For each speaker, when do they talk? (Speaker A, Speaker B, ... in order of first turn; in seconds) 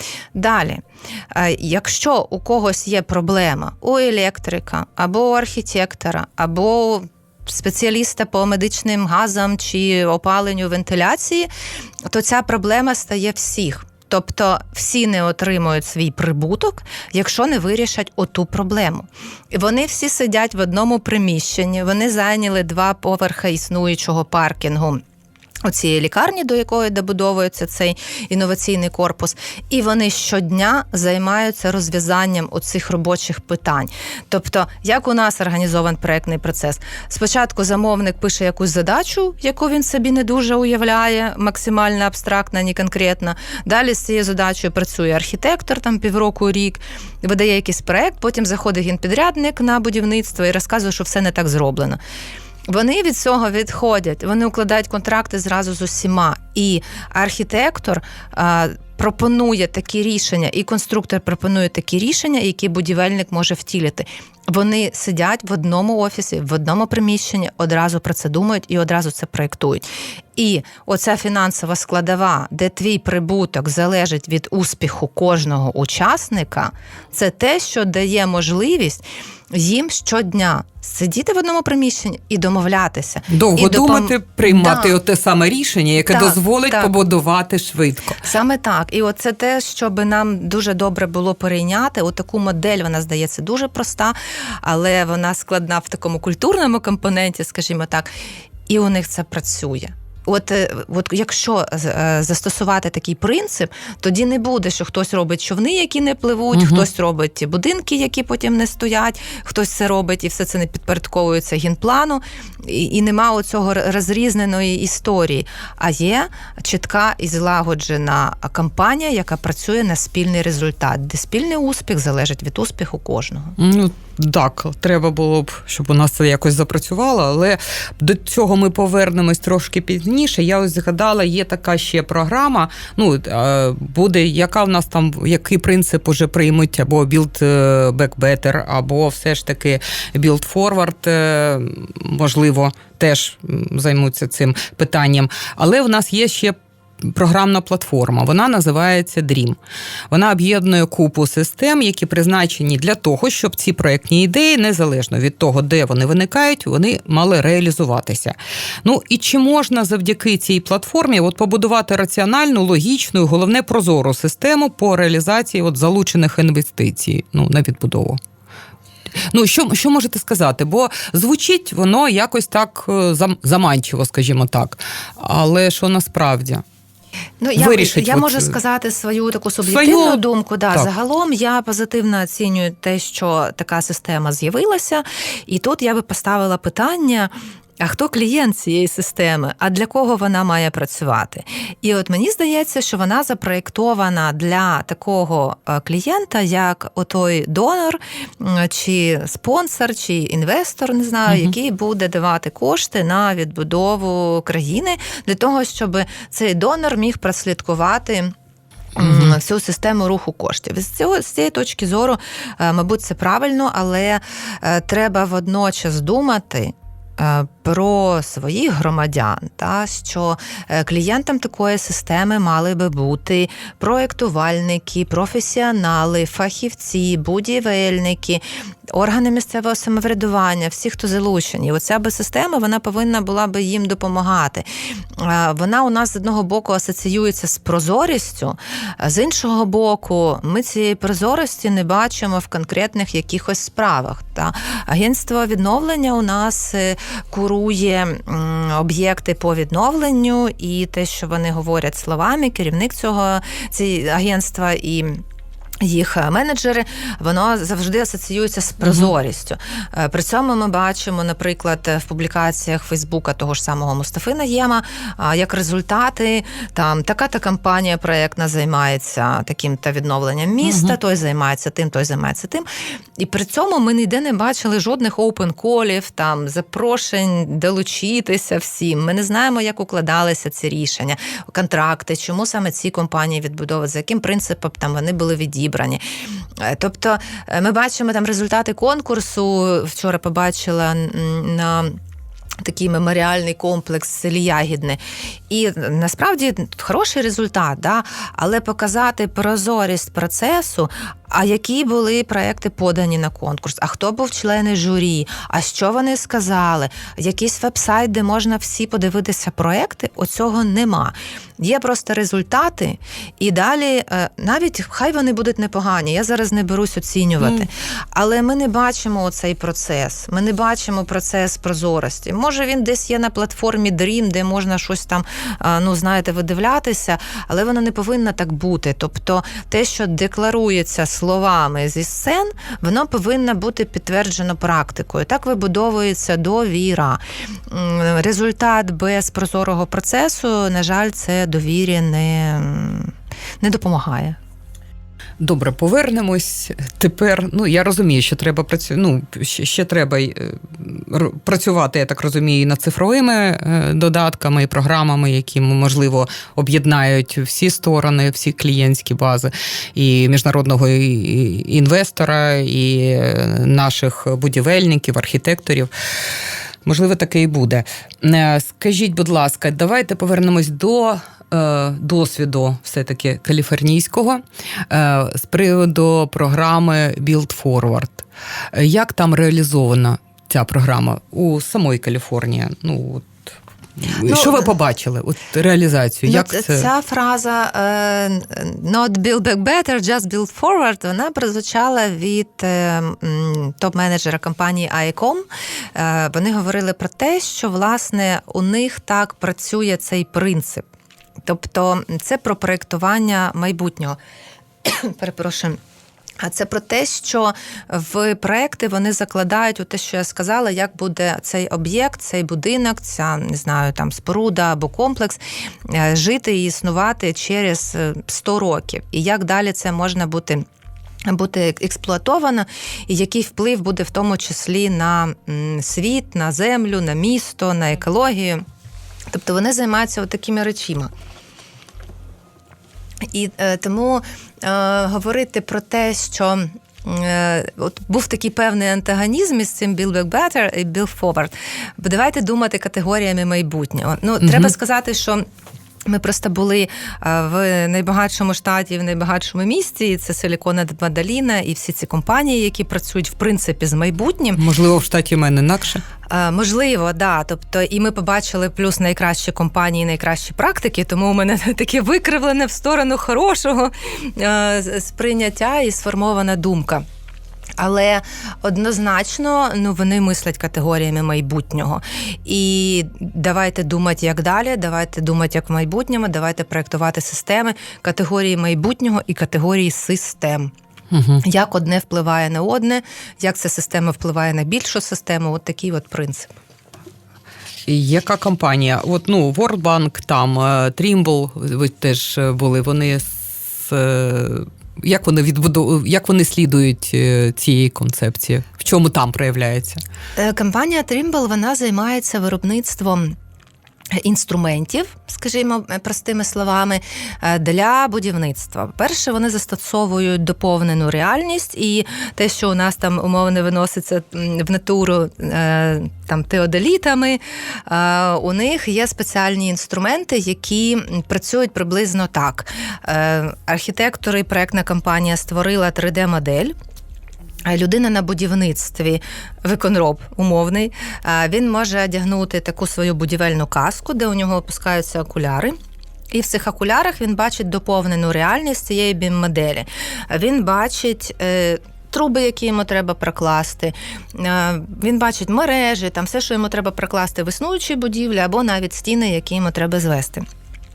Speaker A: 0.3-11.5, 12.1-25.0, 25.6-52.0, 52.7-85.0, 86.1-86.9, 88.2-98.1, 98.7-123.6, 177.4-208.3, 208.9-255.2, 255.8-272.7, 273.2-286.0, 286.6-292.0, 292.6-344.4, 384.2-384.7, 386.2-400.8, 401.4-404.2, 404.8-405.8, 406.4-420.6, 421.3-428.6, 429.3-431.1, 433.3-445.4, 446.1-454.6, 456.3-467.0, 467.8-480.7, 481.4-486.5, 500.4-503.3, 504.1-526.7, 527.7-535.8, 536.3-550.5
Speaker B: 83.3-88.2, 106.5-106.8, 123.6-149.6, 150.1-168.2, 169.3-176.6, 177.6-178.6, 179.7-180.2, 209.0-209.3, 270.6-270.9, 317.4-317.6, 345.4-365.9, 366.8-386.9, 444.4-444.7, 454.6-456.0, 481.1-481.4, 487.9-500.0